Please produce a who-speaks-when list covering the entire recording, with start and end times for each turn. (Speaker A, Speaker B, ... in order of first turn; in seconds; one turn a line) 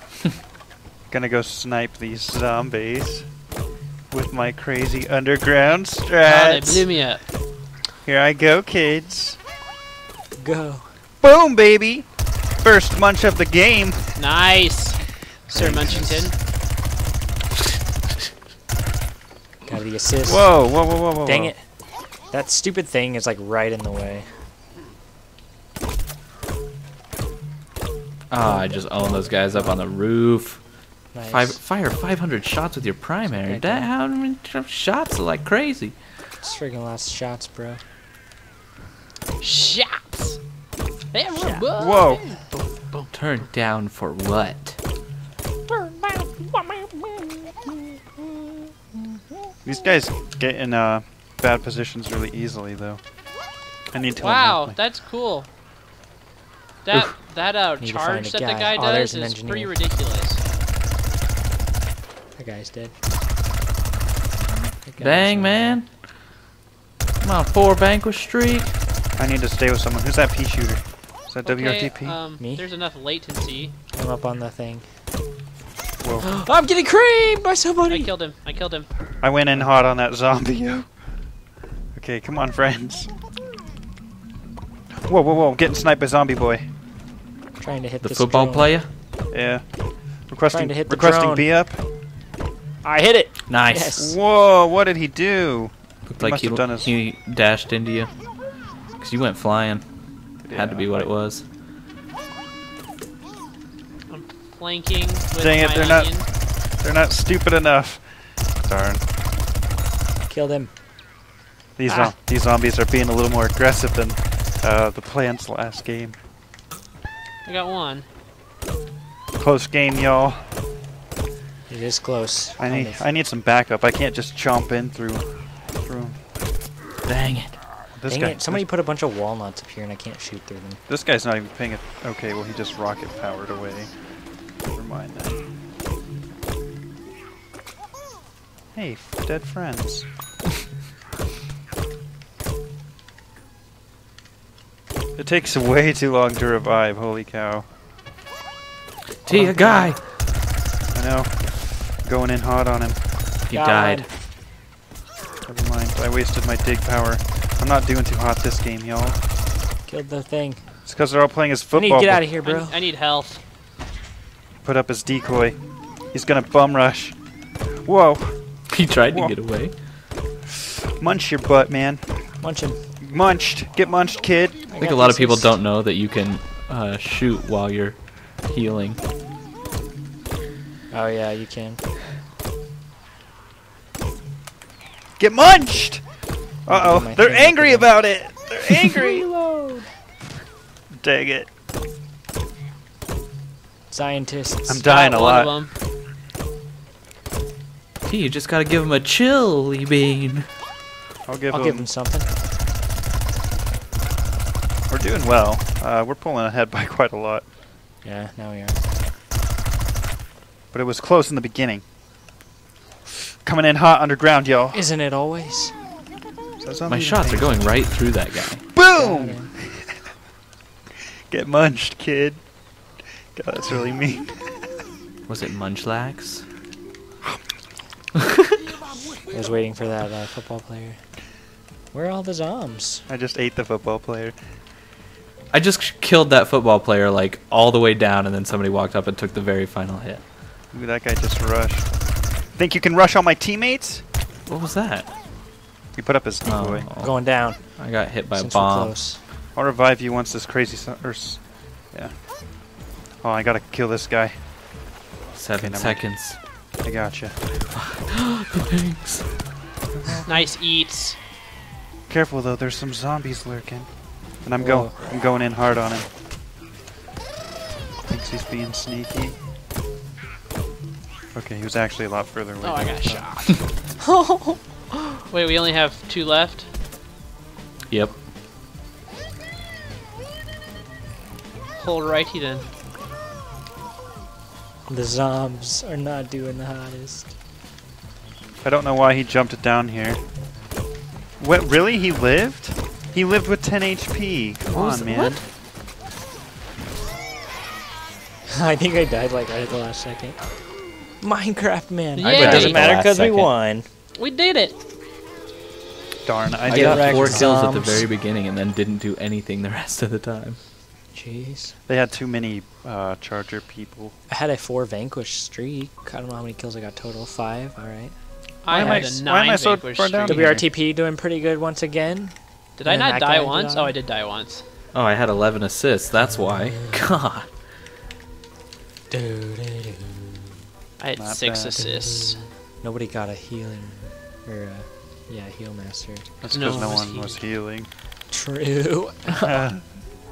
Speaker A: 1.1-3.4
Speaker A: 4.1-7.0
Speaker B: 6.2-7.2
Speaker A: 8.0-9.4
Speaker C: 10.4-10.9
Speaker A: 11.2-14.3
Speaker B: 14.2-16.3
Speaker C: 15.5-16.2
Speaker A: 15.7-16.1
Speaker C: 19.6-21.7
Speaker A: 20.2-21.5
Speaker C: 22.2-24.3
Speaker D: 28.3-30.6
Speaker C: 28.4-29.8
Speaker C: 31.1-31.6
Speaker D: 31.3-36.0
Speaker C: 33.2-33.9
Speaker C: 36.4-37.8
Speaker B: 39.4-40.4
Speaker B: 41.1-43.3
Speaker C: 41.4-41.7
Speaker A: 41.8-42.2
Speaker D: 43.1-44.8
Speaker C: 45.9-47.0
Speaker A: 49.6-53.2
Speaker A: 53.9-54.8
Speaker B: 54.2-55.5
Speaker B: 56.8-60.4
Speaker C: 57.8-59.7
Speaker C: 62.4-63.0
Speaker C: 64.8-65.8
Speaker D: 65.0-66.0
Speaker D: 67.2-68.8
Speaker A: 69.2-72.2
Speaker B: 71.4-73.7
Speaker C: 72.4-72.7
Speaker C: 73.9-74.8
Speaker A: 76.0-76.4
Speaker C: 76.2-78.2
Speaker B: 77.9-78.9
Speaker A: 79.2-81.0
Speaker A: 81.9-83.1
Speaker A: 85.0-86.7
Speaker C: 87.6-88.8
Speaker D: 88.0-88.9
Speaker A: 89.3-91.8
Speaker C: 90.5-91.5
Speaker C: 92.8-94.1
Speaker D: 93.5-94.1
Speaker A: 94.0-96.9
Speaker D: 96.1-98.2
Speaker D: 98.9-101.4
Speaker A: 100.4-101.1
Speaker B: 104.1-106.3
Speaker A: 105.3-109.0
Speaker C: 110.3-110.7
Speaker A: 111.8-116.2
Speaker B: 117.4-118.0
Speaker A: 119.4-120.5
Speaker C: 121.7-123.0
Speaker A: 122.6-126.2
Speaker D: 127.0-127.6
Speaker A: 127.9-128.7
Speaker C: 128.1-130.8
Speaker A: 130.9-135.4
Speaker A: 138.7-140.1
Speaker A: 145.2-147.7
Speaker D: 149.2-150.0
Speaker C: 149.3-149.9
Speaker A: 150.9-153.1
Speaker D: 153.5-154.1
Speaker C: 153.5-154.1
Speaker A: 155.4-159.2
Speaker C: 159.8-160.7
Speaker A: 160.8-162.2
Speaker C: 161.7-162.8
Speaker B: 162.4-163.4
Speaker A: 164.6-165.6
Speaker A: 166.1-167.2
Speaker A: 167.8-168.5
Speaker D: 168.7-169.8
Speaker A: 169.1-169.3
Speaker A: 170.5-172.4
Speaker C: 172.4-172.8
Speaker A: 173.0-174.7
Speaker C: 174.7-175.6
Speaker D: 174.8-179.0
Speaker C: 180.9-181.8
Speaker A: 185.2-186.0
Speaker A: 186.6-189.3
Speaker C: 186.7-189.9
Speaker A: 191.0-191.5
Speaker C: 193.9-194.9
Speaker A: 194.7-195.6
Speaker B: 194.8-195.7
Speaker D: 198.1-200.5
Speaker A: 201.3-201.9
Speaker C: 201.5-202.3
Speaker A: 204.9-207.4
Speaker C: 208.0-208.8
Speaker A: 210.7-211.8
Speaker A: 213.4-214.8
Speaker C: 214.7-215.8
Speaker A: 216.6-217.7
Speaker D: 216.9-218.6
Speaker A: 218.7-219.9
Speaker C: 218.9-219.5
Speaker A: 221.3-222.4
Speaker A: 223.3-224.7
Speaker D: 225.3-226.4
Speaker C: 229.3-231.0
Speaker C: 231.9-233.1
Speaker A: 233.1-234.3
Speaker D: 235.5-240.2
Speaker A: 240.7-244.0
Speaker D: 244.5-245.1
Speaker A: 245.9-246.9
Speaker D: 246.4-249.0
Speaker C: 247.0-249.2
Speaker A: 249.5-254.5
Speaker D: 255.3-256.4
Speaker A: 255.5-257.4
Speaker D: 257.7-259.5
Speaker A: 260.0-260.3
Speaker B: 260.3-261.2
Speaker A: 262.1-266.1
Speaker C: 264.6-265.0
Speaker A: 268.1-269.4
Speaker A: 271.3-273.5
Speaker B: 272.6-273.6
Speaker C: 274.0-274.9
Speaker B: 275.3-276.7
Speaker D: 277.9-278.2
Speaker B: 281.8-282.7
Speaker C: 284.9-287.3
Speaker A: 288.6-290.2
Speaker A: 291.4-295.4
Speaker D: 294.7-295.4
Speaker C: 298.5-300.4
Speaker C: 301.2-303.9
Speaker B: 302.1-302.9
Speaker D: 302.2-303.5
Speaker B: 304.1-304.7
Speaker A: 306.2-307.5
Speaker C: 306.7-308.1
Speaker D: 306.7-310.6
Speaker C: 311.1-311.8
Speaker A: 311.9-314.1
Speaker C: 314.3-318.1
Speaker B: 318.6-320.6
Speaker A: 318.7-320.6
Speaker C: 318.7-319.1
Speaker C: 320.2-323.9
Speaker B: 322.8-324.6
Speaker D: 324.9-327.5
Speaker C: 329.1-330.3
Speaker B: 331.0-332.4
Speaker A: 331.1-331.8
Speaker C: 331.8-336.3
Speaker A: 336.4-337.9
Speaker B: 336.5-337.4
Speaker C: 338.3-339.5
Speaker A: 339.4-339.8